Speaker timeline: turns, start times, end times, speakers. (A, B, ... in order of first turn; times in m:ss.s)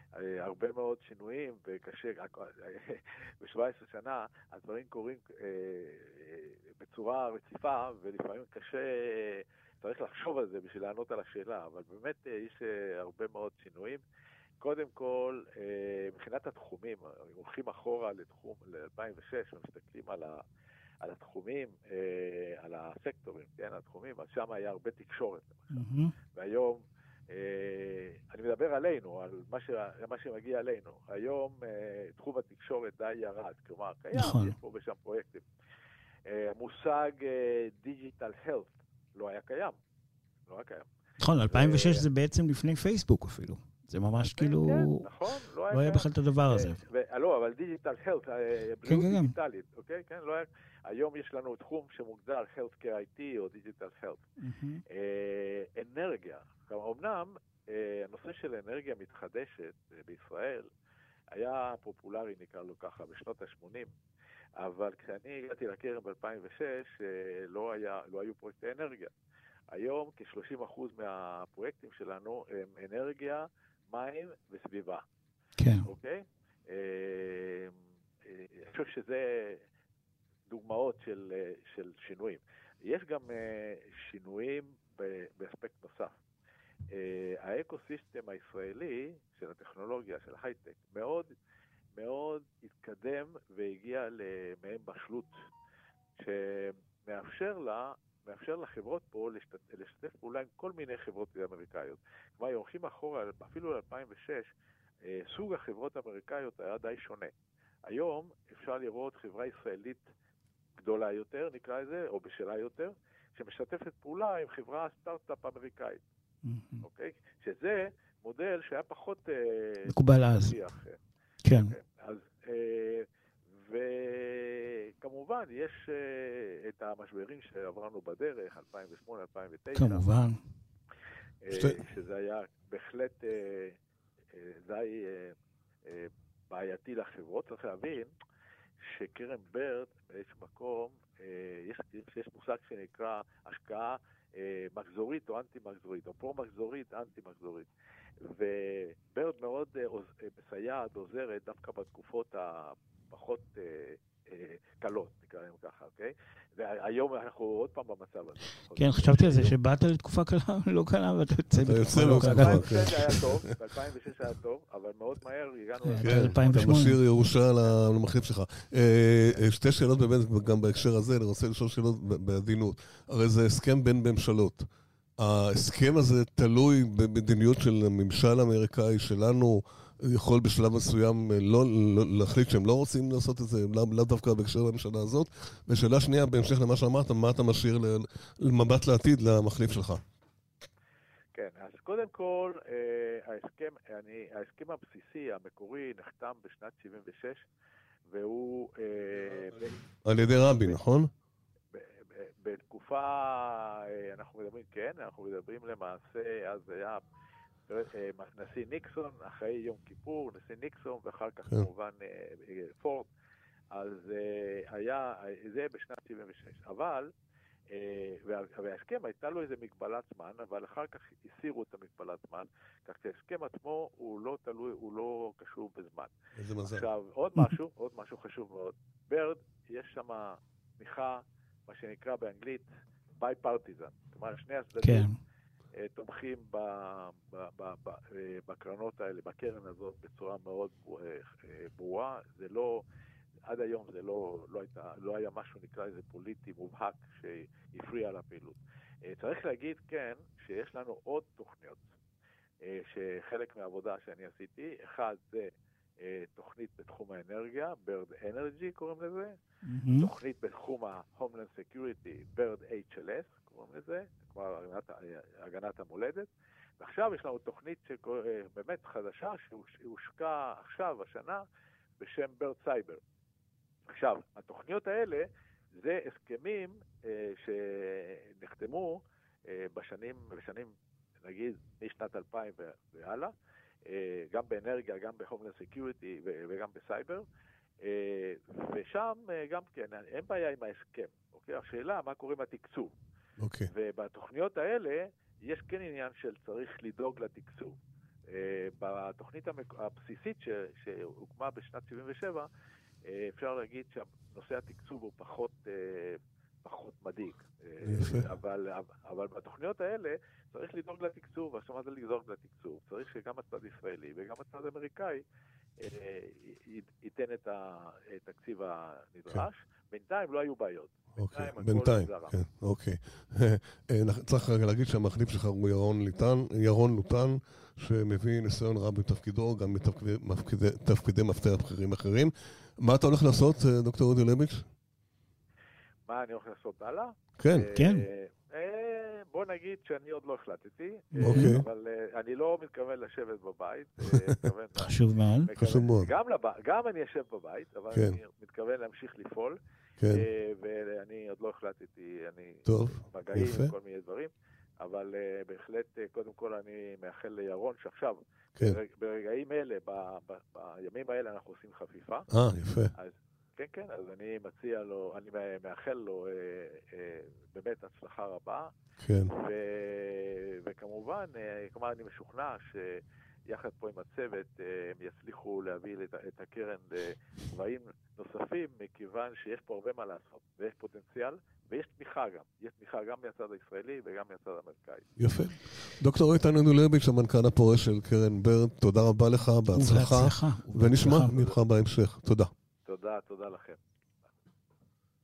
0:00.1-0:14.0 A
0:14.6-0:20.4 A
0:21.0-0:35.4 A
0:25.7-0:26.2 B
0:34.1-0:34.6 B
0:36.3-0:39.8 A
0:40.5-0:40.9 A
0:41.2-0:45.1 B
0:41.5-0:42.0 A
0:44.3-0:54.2 A
0:45.7-0:46.8 B
0:48.9-0:49.4 B
0:54.4-0:54.8 B
0:54.9-1:00.7 A
1:01.4-1:03.9 A
1:04.6-1:09.1 A
1:09.7-1:15.0 A
1:15.6-1:15.9 B
1:15.8-1:19.6 A
1:20.5-1:26.2 A
1:26.9-1:31.3 A
1:32.0-1:35.4 A
1:36.2-1:44.5 A
1:45.0-1:47.3 A
1:47.9-1:50.0 A
1:50.8-1:56.0 A
1:56.4-1:56.8 B
1:56.8-2:01.0 A
1:59.9-2:00.6 B
2:01.4-2:01.7 B
2:01.5-2:03.1 A
2:03.6-2:10.1 A
2:09.8-2:10.4 B
2:11.4-2:13.8 A
2:11.5-2:11.8 C
2:14.3-2:18.1 A
2:18.8-2:27.7 A
2:28.2-2:39.6 A
2:38.8-2:43.2 B
2:41.6-2:43.4 C
2:41.9-2:46.8 A
2:45.8-2:47.0 B
2:46.0-2:54.7 C
2:55.2-3:10.0 C
3:11.3-3:17.5 A
3:18.1-3:19.8 A
3:20.0-3:21.1 C
3:21.7-3:27.0 A
3:27.7-3:33.1 A
3:33.7-3:37.1 A
3:37.7-3:46.1 A
3:46.4-3:46.9 C
3:46.6-3:55.1 A
3:54.8-3:55.1 B
3:55.8-4:02.8 A
4:03.5-4:11.9 A
4:12.6-4:19.3 A
4:19.6-4:20.1 B
4:19.9-4:26.3 A
4:26.8-4:31.4 A
4:32.0-4:33.0 A
4:33.9-4:35.3 A
4:35.8-4:43.3 A
4:43.8-4:47.3 A
4:47.8-4:52.9 A
4:53.4-4:53.7 C
4:53.7-4:57.8 A
4:58.3-5:02.5 A
5:03.0-5:15.2 A
5:07.8-5:08.3 C
5:15.8-5:22.4 A
5:21.2-5:34.7 C
5:36.1-5:49.6 A
5:37.4-5:37.7 C
5:37.8-5:38.1 B
5:41.1-5:41.6 B
5:41.2-5:41.6 C
5:44.8-5:45.5 B
5:45.6-5:46.1 C
5:50.0-5:50.2 C
5:50.1-6:02.3 A
5:52.7-5:53.7 C
6:02.3-6:02.9 C
6:03.0-6:08.7 A
6:09.0-6:09.3 C
6:09.3-6:25.1 A
6:25.2-6:32.5 C
6:29.7-6:31.6 B
6:32.9-6:33.8 A